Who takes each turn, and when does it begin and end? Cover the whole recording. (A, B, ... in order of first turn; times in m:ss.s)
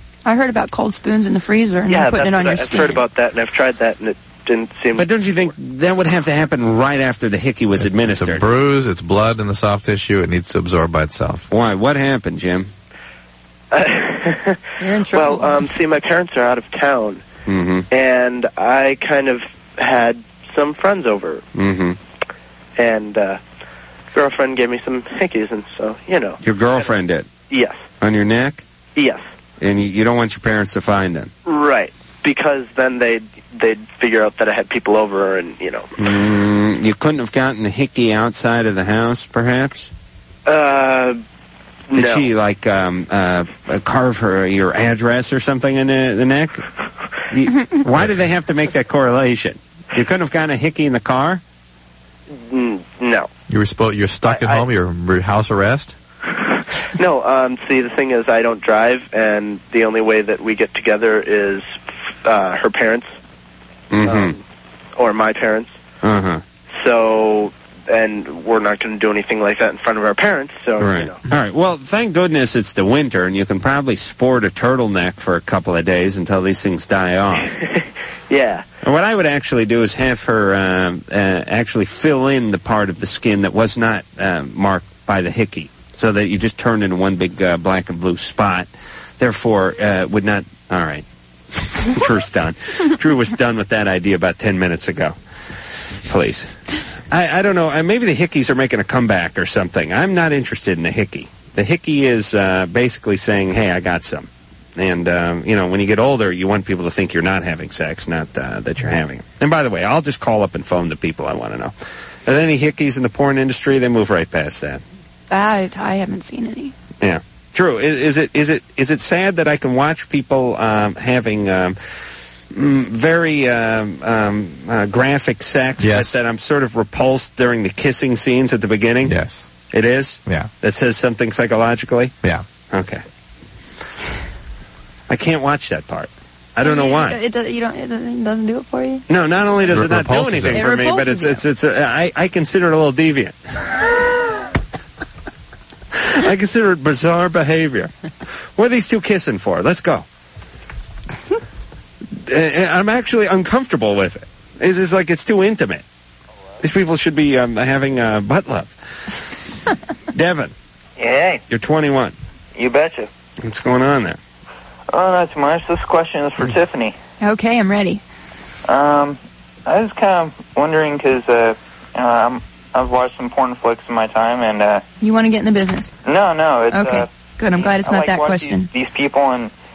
0:00.2-0:03.0 A
0:01.9-0:05.1 B
0:05.0-0:08.5 C
0:07.8-0:11.5 D
0:11.5-0:12.7 C
0:13.7-0:17.2 B
0:14.8-0:15.7 A
0:17.5-0:17.9 C
0:17.9-0:21.4 B
0:21.6-0:22.0 C
0:22.8-0:23.4 B
0:24.1-0:26.9 B
0:26.4-0:27.3 C
0:27.5-0:27.8 B
0:28.0-0:28.6 C
0:29.0-0:29.3 B
0:29.6-0:31.3 C
0:31.4-0:35.9 B
0:36.0-0:39.9 C
0:40.5-0:41.2 B
0:41.9-0:42.3 B
0:42.0-0:46.6 C
0:47.3-0:51.4 C
0:52.3-0:53.3 B
0:53.5-0:56.0 D
0:54.2-0:54.7 B
0:56.4-1:01.7 B
1:02.2-1:03.1 B
1:03.9-1:04.4 C
1:04.0-1:04.4 B
1:05.0-1:05.7 B
1:06.0-1:06.4 C
1:06.8-1:11.2 B
1:10.8-1:17.5 C
1:18.3-1:18.6 B
1:18.8-1:35.2 C
1:36.1-1:36.5 C
1:37.1-1:51.7 C
1:52.2-1:54.8 C
1:55.3-1:56.7 A
1:57.0-2:01.8 C
2:02.5-2:09.2 C
2:05.8-2:06.1 D
2:09.0-2:09.5 D
2:09.7-2:12.2 C
2:12.7-2:13.0 C
2:15.1-2:17.2 C
2:16.6-2:19.0 A
2:19.1-2:23.7 C
2:19.7-2:20.7 D
2:20.5-2:21.4 A
2:26.0-2:27.9 C
2:28.6-2:30.0 C
2:32.2-2:35.8 C
2:36.6-2:38.7 C
2:40.1-2:40.5 C
2:41.0-2:41.4 E
2:41.5-2:42.2 C
2:42.6-2:43.1 E
2:43.4-2:44.2 C
2:44.9-2:47.0 E
2:47.2-2:48.0 A
2:48.7-2:54.8 E
2:55.0-2:55.9 A
2:56.0-2:59.5 E
2:56.7-2:58.7 A